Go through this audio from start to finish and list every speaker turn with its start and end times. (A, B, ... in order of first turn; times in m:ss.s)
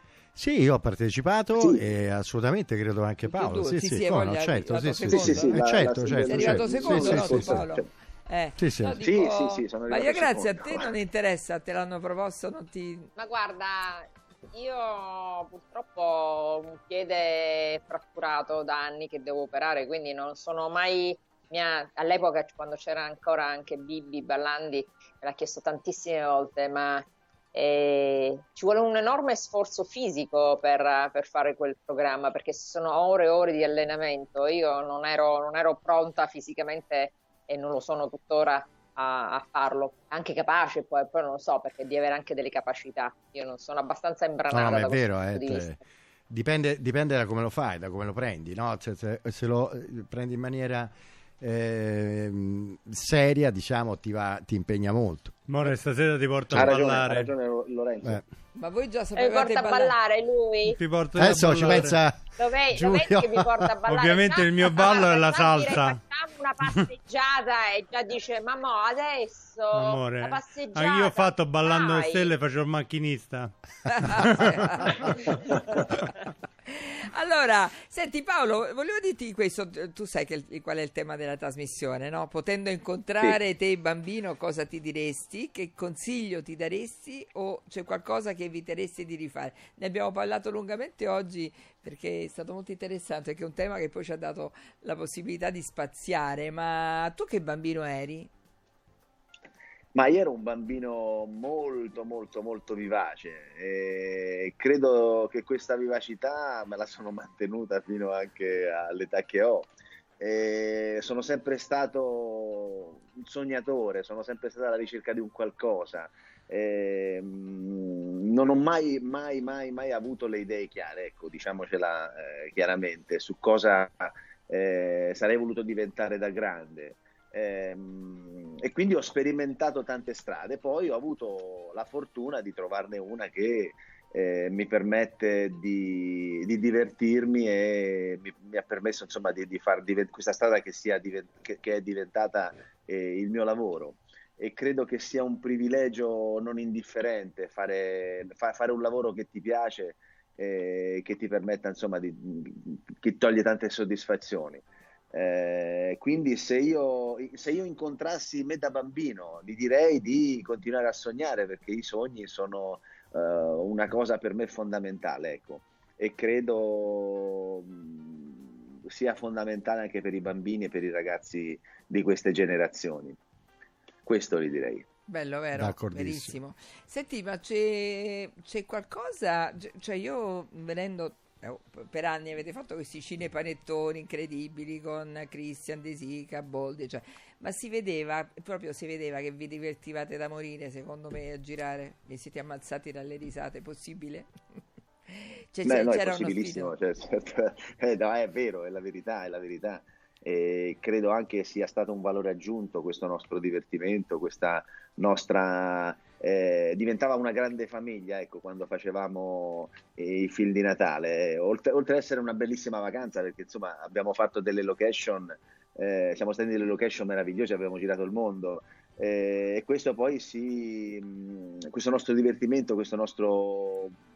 0:00.3-0:07.6 A
0:01.6-0:01.8 B
0:03.3-0:13.1 C
0:05.1-0:07.9 B
0:08.6-0:09.0 A
0:09.0-0:10.9 B
0:13.2-0:45.8 D
0:44.5-0:45.8 A
0:46.3-0:55.5 A
0:55.5-0:57.3 E
0:56.5-0:56.7 A
0:56.5-0:58.2 B
0:58.6-0:59.9 C
0:59.1-1:00.8 D
1:00.7-1:02.0 E
1:01.2-1:03.7 A
1:02.4-1:12.3 D
1:03.8-1:06.0 E
1:09.7-1:14.9 E
1:13.9-1:15.1 C
1:16.7-1:38.3 C
1:39.9-1:49.7 B
1:50.2-2:53.2 B
2:54.0-2:54.8 B
2:55.1-3:14.3 C
2:55.5-2:56.3 A
3:15.1-3:16.7 C
3:15.6-3:43.9 B